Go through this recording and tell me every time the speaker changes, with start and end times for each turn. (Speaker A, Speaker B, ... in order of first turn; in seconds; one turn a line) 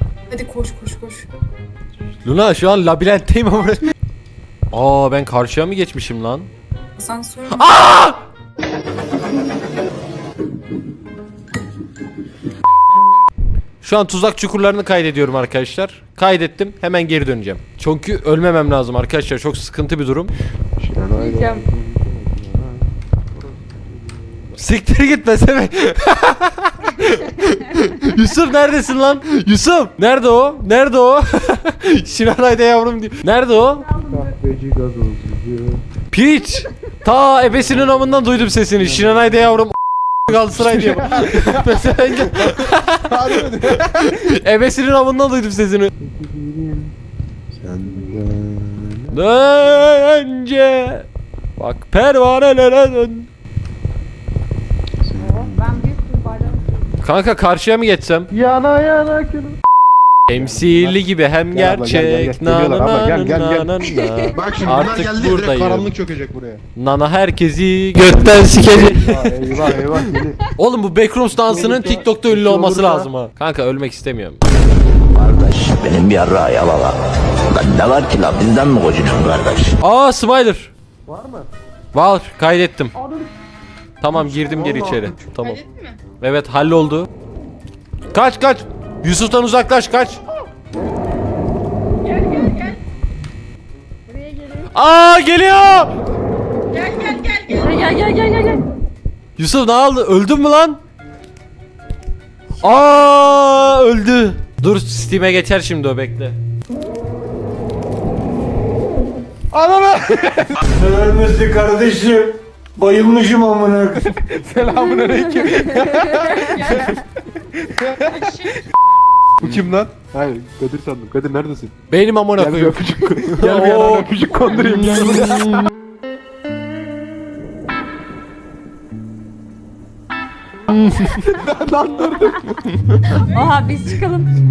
Speaker A: 0.3-1.3
Speaker B: 2.2-3.9
Speaker B: 4.7-6.5
Speaker A: 7.0-7.7
Speaker B: 7.5-8.2
Speaker B: 13.8-20.3
Speaker C: 20.8-24.4
Speaker D: 21.1-21.6
Speaker B: 24.6-33.9
Speaker C: 34.1-35.8
Speaker B: 36.1-39.8
Speaker C: 38.8-39.3
Speaker B: 40.3-45.9
Speaker C: 40.3-44.2
Speaker C: 46.0-46.9
Speaker C: 47.5-49.2
Speaker B: 49.1-53.3
Speaker C: 55.0-55.6
Speaker D: 55.2-56.6
Speaker B: 57.0-58.3
Speaker C: 58.3-59.6
Speaker B: 60.3-65.9
Speaker C: 60.3-66.6
Speaker D: 63.9-64.6
Speaker B: 66.8-69.5
Speaker C: 68.6-70.4
Speaker B: 70.6-74.4
Speaker C: 71.3-73.1
Speaker E: 75.1-77.0
Speaker E: 77.5-79.8
Speaker B: 79.8-80.7
Speaker C: 81.0-81.5
Speaker B: 81.9-82.9
Speaker B: 84.0-85.6
Speaker C: 84.1-85.1
Speaker A: 85.4-86.0
Speaker B: 86.2-87.1
Speaker B: 88.1-90.2
Speaker A: 92.0-92.8
Speaker D: 94.1-94.7
Speaker B: 94.7-95.9
Speaker A: 96.7-98.0
Speaker D: 97.5-98.7
Speaker B: 99.4-100.8
Speaker B: 102.6-106.4
Speaker D: 102.6-103.3
Speaker C: 109.5-110.7
Speaker C: 114.1-116.8
Speaker D: 115.0-116.0
Speaker A: 116.2-117.0
Speaker C: 117.6-118.3
Speaker A: 118.0-118.7
Speaker C: 119.4-121.8
Speaker B: 121.9-125.7
Speaker C: 122.4-125.7
Speaker B: 130.7-131.2
Speaker C: 131.1-132.6
Speaker D: 133.2-134.3